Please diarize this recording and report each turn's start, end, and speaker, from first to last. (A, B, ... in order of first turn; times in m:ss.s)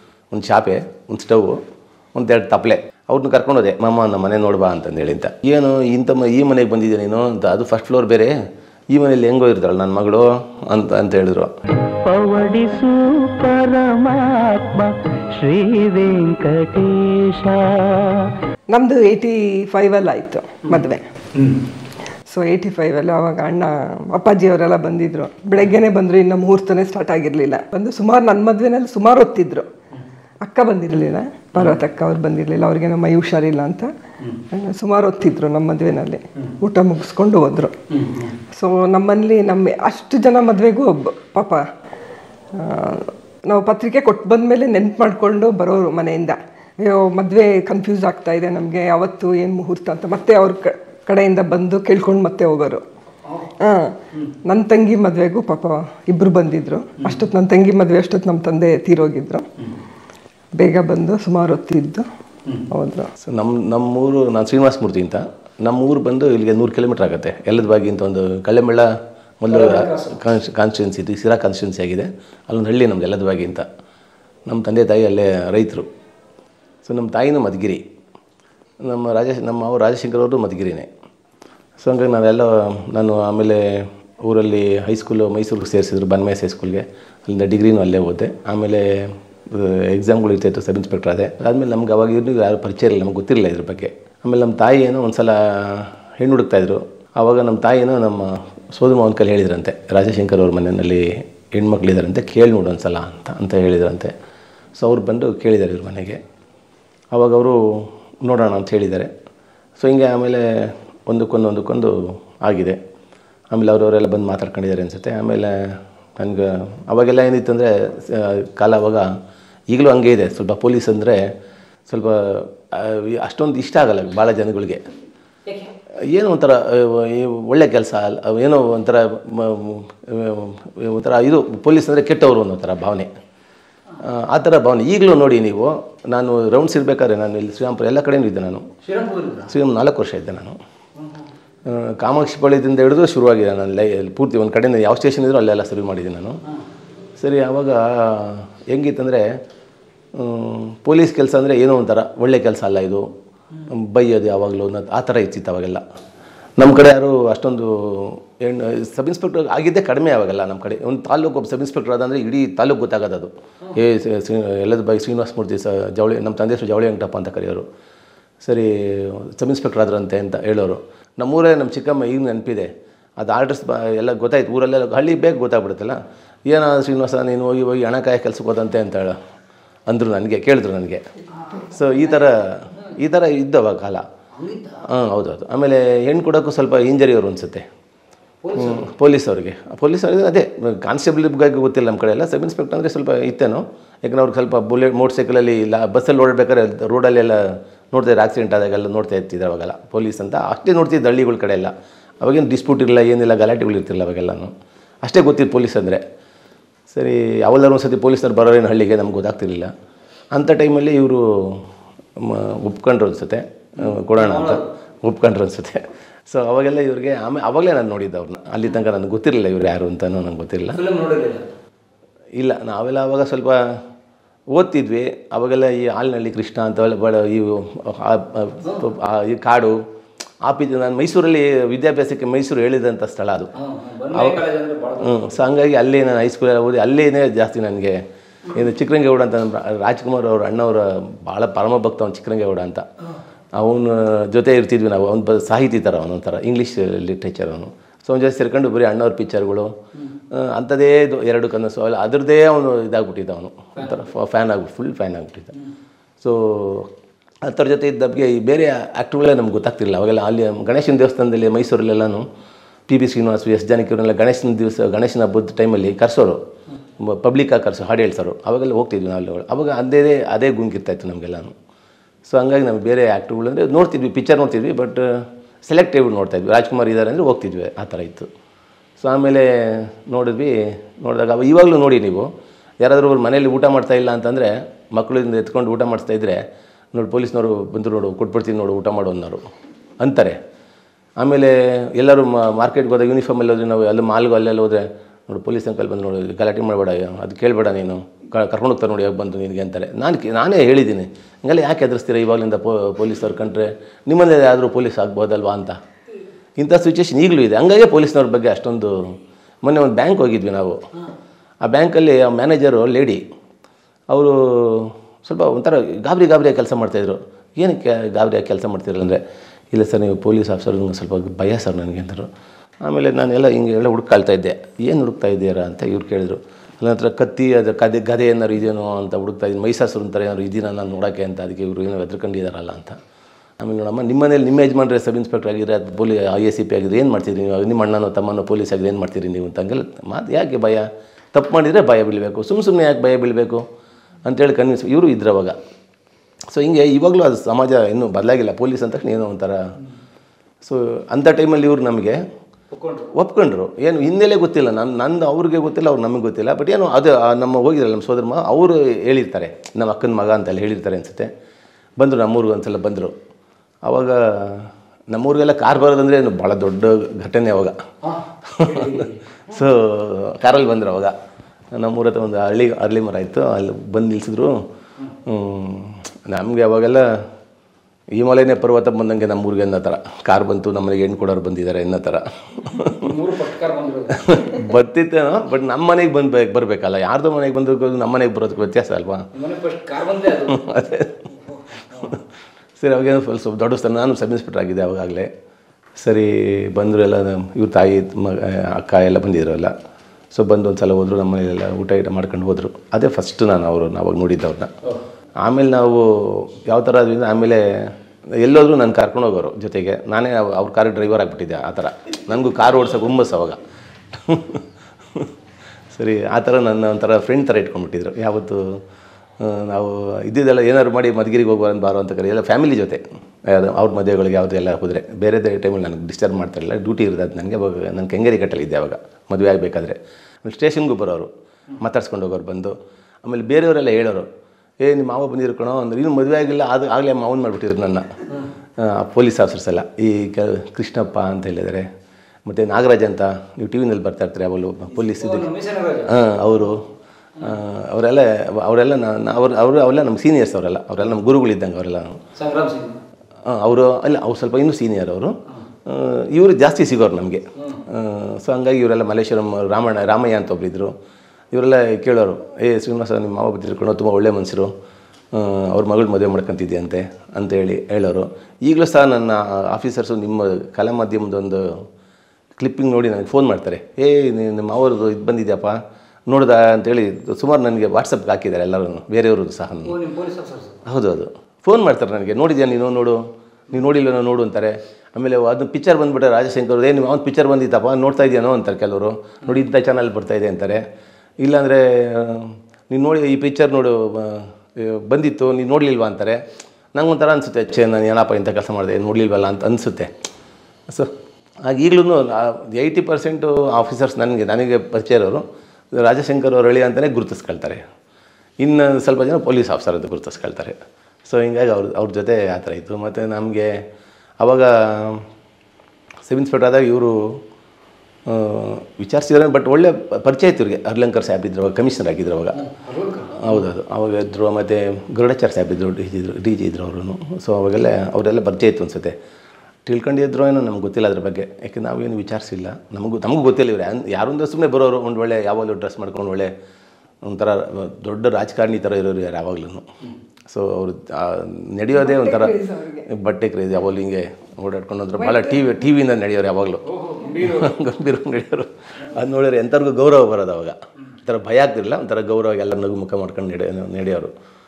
0:00.3-0:01.6 A
0:02.1-0:08.3 A
0:08.9-0:11.5 A
0:11.8-0:18.3 B
0:18.7-0:21.0 C
0:22.3-0:29.7 C
0:30.4-0:33.9 C
0:34.5-0:37.7 C
0:37.9-0:38.4 D
0:38.5-0:41.6 C
0:42.5-0:52.8 C
0:53.6-0:59.4 C
1:00.6-1:02.1 C
1:02.7-1:03.1 C
1:03.2-1:08.9 A
1:09.4-1:13.7 A
1:09.5-1:10.1 D
1:14.5-1:15.9 A
1:16.8-1:17.8 A
1:18.8-1:20.9 A
1:21.8-1:44.1 A
1:44.8-1:46.2 A
1:47.1-1:49.1 A
1:49.8-1:52.8 A
1:53.5-1:59.1 A
1:59.7-2:01.3 A
2:01.9-2:04.9 A
2:06.1-2:13.1 A
2:14.0-2:18.7 A
2:18.8-2:19.5 D
2:19.5-2:20.6 A
2:21.0-2:21.2 D
2:21.6-2:26.4 A
2:27.2-2:29.3 A
2:30.1-2:33.1 A
2:33.7-2:35.8 A
2:36.6-2:47.6 A
2:48.4-2:59.2 A
2:59.9-3:01.0 A
3:01.7-3:04.0 A
3:04.4-3:04.8 D
3:04.8-3:07.6 A
3:08.4-3:08.9 D
3:08.6-3:26.0 A
3:26.9-3:29.7 A
3:30.3-3:31.6 A
3:32.2-3:40.8 A
3:33.8-3:34.6 D
3:40.7-3:41.4 D
3:42.4-3:43.8 A
3:44.5-3:49.8 A
3:50.4-3:53.5 A
3:53.6-3:55.3 D
3:54.1-3:54.4 A
3:55.0-4:02.8 A
4:03.6-4:09.7 A
4:10.3-4:15.5 A
4:16.2-4:16.9 A
4:17.4-4:22.2 A
4:22.9-4:26.4 A
4:27.0-4:31.5 A
4:32.2-4:38.3 A
4:39.0-4:42.3 A
4:42.8-4:46.4 A
4:46.9-4:49.4 A
4:50.0-4:50.4 A
4:51.2-5:05.8 A
5:06.6-5:10.8 A
5:11.6-5:13.2 A
5:14.1-5:19.2 A
5:19.7-5:22.3 A
5:22.8-5:33.0 A
5:33.6-5:43.6 A
5:44.2-5:45.6 A
5:46.5-5:49.7 A
5:50.6-5:52.2 A
5:52.7-5:53.1 D
5:53.1-6:01.3 A
6:02.0-6:03.2 A
6:03.8-6:07.8 A
6:08.0-6:09.2 D
6:08.5-6:11.1 A
6:11.7-6:14.6 A
6:15.2-6:17.2 A
6:18.1-6:23.0 A
6:22.8-6:24.6 D
6:24.2-6:29.3 A
6:29.3-6:30.7 D
6:30.5-6:31.2 A
6:31.3-6:32.2 D
6:32.8-6:35.3 A
6:36.0-6:39.7 A
6:40.3-6:44.7 A
6:45.4-6:53.6 A
6:54.1-6:54.6 A
6:55.9-6:58.8 A
6:59.4-7:14.3 A
7:14.8-7:21.9 A
7:22.4-7:25.5 A
7:25.0-7:26.2 D
7:26.1-7:26.8 A
7:27.4-7:32.2 A
7:32.4-7:33.0 D
7:33.4-7:40.9 A
7:37.6-7:37.8 D
7:41.5-7:44.7 A
7:45.3-7:51.7 A
7:52.6-8:00.0 A
7:59.8-8:00.8 D
8:00.8-8:10.9 A
8:11.4-8:16.4 A
8:16.9-8:20.1 A
8:20.9-8:21.1 A
8:21.6-8:27.8 A
8:28.6-8:33.8 A
8:34.4-8:35.2 A
8:36.2-8:37.4 A
8:38.3-8:42.6 A
8:42.5-8:43.6 D
8:43.4-8:49.2 A
8:49.8-8:56.5 A
8:57.2-8:59.9 A
9:00.5-9:02.5 A
9:02.0-9:03.1 C
9:03.1-9:14.3 A
9:05.2-9:05.6 C
9:06.9-9:07.7 D